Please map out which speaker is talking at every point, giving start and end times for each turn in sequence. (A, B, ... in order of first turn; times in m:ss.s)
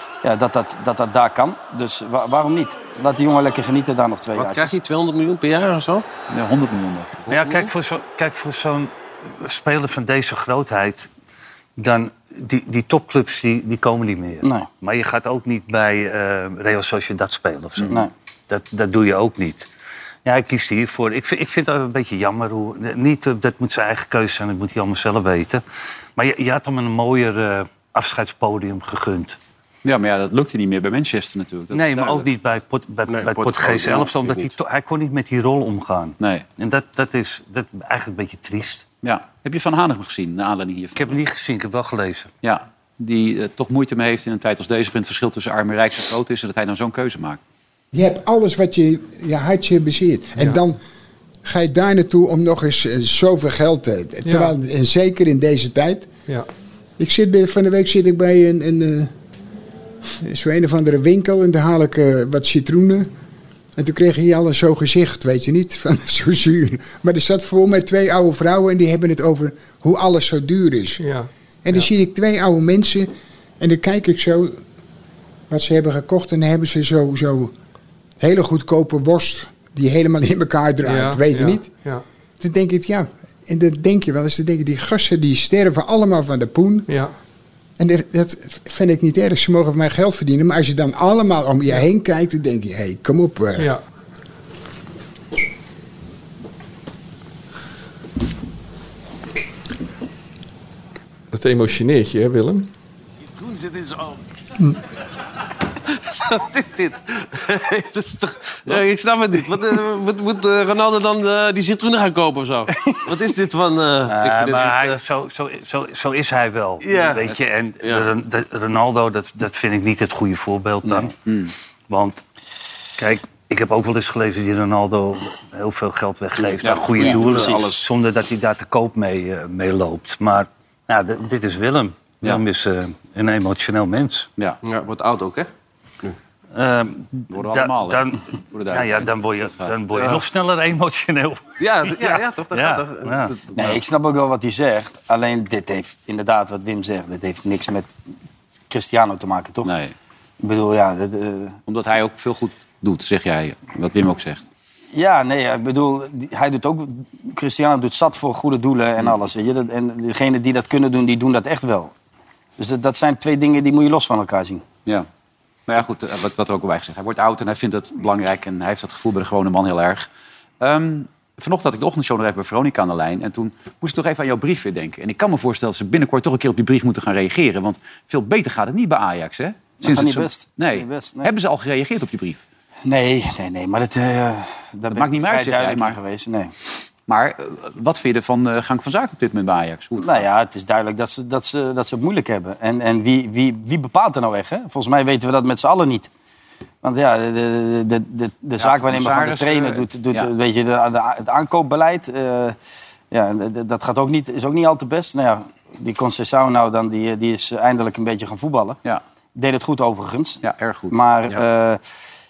0:00.2-0:04.8 A
0:04.4-0:06.1 B
0:06.3-0:07.2 C
0:07.3-0:11.1 D
0:07.3-0:07.7 B
0:11.8-0:19.7 D
0:14.4-0:14.7 A
0:20.2-0:25.6 D
0:26.2-0:29.4 D
0:29.8-0:32.3 C
0:31.7-0:38.8 D
0:33.1-0:34.5 B
0:36.2-0:36.4 C
0:39.0-0:41.2 C
0:41.0-0:42.3 D
0:42.4-0:47.4 C
0:47.9-0:50.8 E
0:51.4-0:56.1 E
0:54.2-0:54.5 F
0:57.0-0:59.1 E
1:00.2-1:03.1 E
1:03.8-1:11.0 E
1:11.0-1:11.3 F
1:11.6-1:14.6 E
1:15.5-1:17.5 E
1:18.2-1:21.7 E
1:20.8-1:22.0 F
1:22.4-1:26.9 E
1:26.9-1:27.1 F
1:27.8-1:33.7 E
1:41.3-1:42.7 F
1:43.4-1:44.2 B
1:46.0-1:55.0 B
1:54.1-2:01.1 D
1:56.8-1:57.3 B
1:57.8-1:58.1 B
2:01.3-2:01.5 C
2:01.9-2:02.2 D
2:03.0-2:14.3 D
2:06.6-2:07.1 C
2:07.0-2:07.6 B
2:07.2-2:07.7 A
2:14.6-2:15.5 B
2:16.5-2:23.4 D
2:17.3-2:19.7 C
2:19.9-2:20.2 B
2:21.6-2:23.7 B
2:23.6-2:27.9 A
2:28.7-2:29.7 A
2:29.6-2:29.9 C
2:30.4-2:31.6 A
2:31.7-2:34.4 C
2:34.9-2:41.9 A
2:42.6-2:44.6 A
2:45.7-2:50.1 C
2:50.6-3:02.4 C
2:59.8-3:01.3 A
3:02.9-3:06.5 A
3:04.9-3:06.0 C
3:07.1-3:10.3 C
3:10.0-3:16.1 A
3:16.8-3:22.6 A
3:18.6-3:20.3 C
3:23.1-3:28.8 A
3:29.4-3:31.8 A
3:30.4-3:30.9 C